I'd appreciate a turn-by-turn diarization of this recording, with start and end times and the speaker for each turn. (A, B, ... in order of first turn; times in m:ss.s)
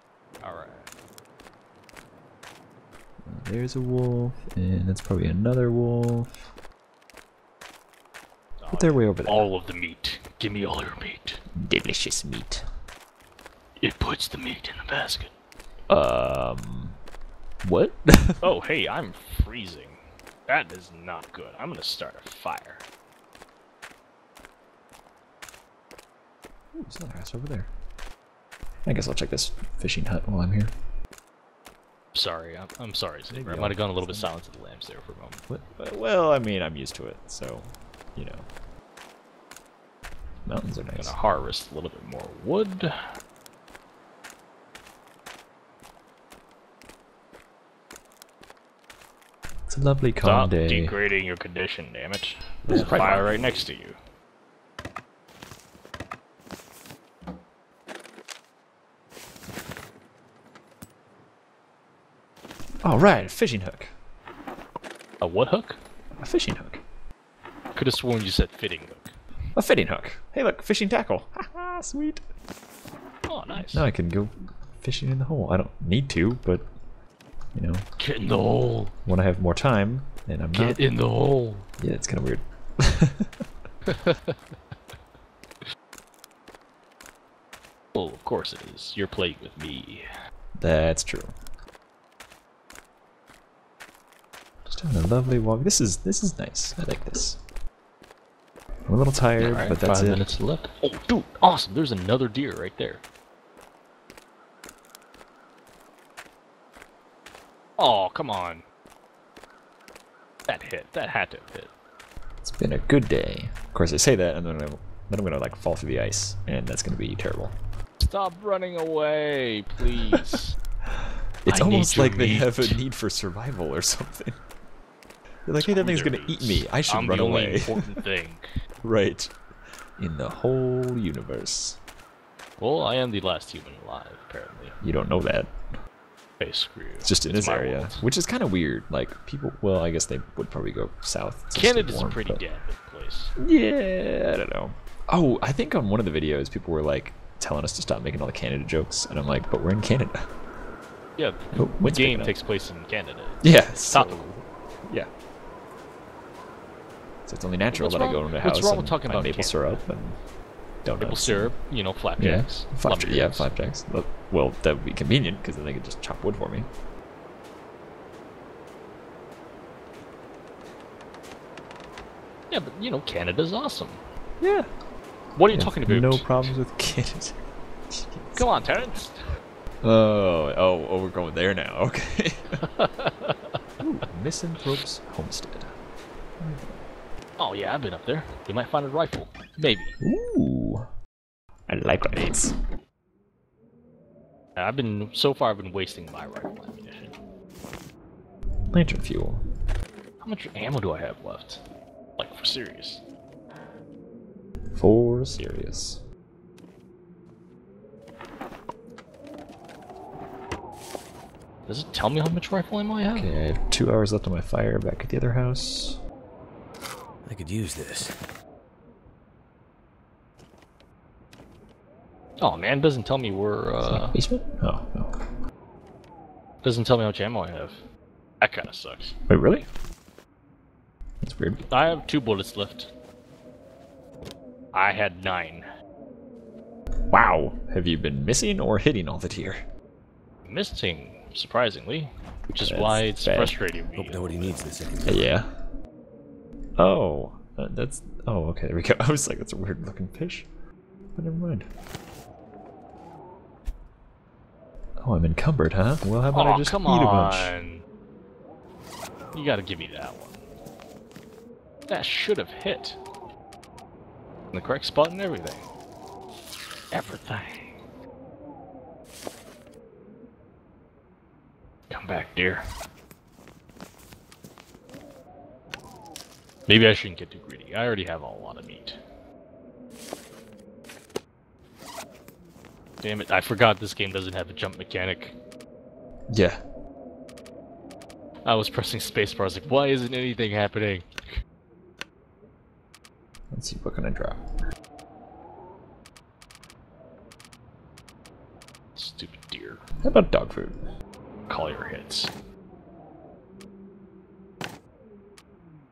0:00.4-0:00.9 A
0:03.2-0:06.4 B
0:08.6-0:11.4 A
0:08.7-0:09.5 B
0:11.6-0:12.6 B
0:13.8-0:15.3 A
0:15.9-0:17.0 B
0:17.6-0:18.5 B
0:18.4-0:22.8 A
0:26.7-0:27.7 B
0:28.9-0:30.7 B
0:32.1-0:35.4 A
0:33.3-0:34.3 B
0:35.5-0:38.5 B
0:40.4-0:41.2 B
0:41.0-0:42.9 A
0:49.7-0:50.9 B
0:50.2-0:54.0 A
0:52.7-0:53.7 B
0:52.7-0:53.2 C
1:02.8-1:03.9 B
1:05.2-1:05.8 A
1:06.2-1:06.8 B
1:07.8-1:09.2 A
1:09.6-1:12.2 B
1:13.3-1:13.9 A
1:13.6-1:16.7 B
1:17.6-1:17.9 B
1:18.0-1:18.9 A
1:19.1-1:20.8 B
1:20.5-1:21.7 A
1:21.8-1:23.3 B
1:23.9-1:24.4 A
1:28.0-1:30.0 A
1:30.6-1:31.3 B
1:34.7-1:37.4 B
1:38.9-1:40.2 B
1:39.4-1:43.0 A
1:47.8-1:48.6 A
1:50.5-1:51.7 A
1:52.4-1:57.6 B
1:58.0-2:00.6 A
2:00.1-2:00.4 B
2:01.4-2:04.4 B
2:01.5-2:02.8 A
2:05.5-2:08.0 B
2:05.6-2:08.5 A
2:08.8-2:09.3 B
2:10.0-2:11.8 B
2:12.6-2:14.8 A
2:14.8-2:15.5 B
2:16.4-2:18.0 A
2:17.0-2:22.4 B
2:21.5-2:23.3 A
2:23.4-2:30.3 B
2:31.2-2:34.4 A
2:31.5-2:32.3 B
2:33.4-2:34.3 B
2:34.8-2:35.1 B
2:37.3-2:40.2 B
2:37.7-2:39.8 A
2:40.8-2:41.5 B
2:41.0-2:43.5 A
2:42.2-2:46.7 B
2:52.5-2:54.0 A
2:54.4-2:54.7 B
2:55.4-2:56.5 A
2:55.5-2:58.5 B
2:58.4-2:59.2 A
2:59.8-3:02.6 B
3:02.6-3:03.4 A
3:03.8-3:05.8 B
3:06.4-3:06.8 B
3:07.4-3:10.0 A
3:10.0-3:10.9 B
3:11.7-3:12.6 B
3:14.6-3:17.2 A
3:18.7-3:19.4 B
3:20.2-3:21.6 A
3:22.2-3:23.0 A
3:24.8-3:26.0 B
3:31.7-3:33.3 A
3:33.1-3:36.0 B
3:37.3-3:38.2 C
3:42.4-3:44.2 A
3:43.8-3:45.2 B
3:46.6-3:47.8 A
3:48.4-3:49.1 A
3:49.3-3:49.7 B
3:51.2-3:51.6 B
3:51.7-3:52.9 A
3:54.7-3:55.6 A
3:57.1-3:59.6 B
4:00.5-4:04.5 A
4:02.6-4:03.6 B
4:04.0-4:05.4 C
4:05.0-4:05.5 B
4:06.8-4:10.5 B
4:11.2-4:11.7 B
4:15.0-4:17.5 B
4:16.3-4:17.8 A
4:19.3-4:20.4 A
4:21.9-4:23.0 A
4:24.5-4:25.6 A
4:26.9-4:27.7 A
4:31.9-4:32.6 A
4:36.7-4:39.0 A
4:43.0-4:45.4 A
4:46.3-4:46.6 B
4:48.4-4:51.1 A
4:53.5-4:54.4 B
4:59.0-4:59.8 A
5:00.0-5:00.8 B
5:01.5-5:02.3 A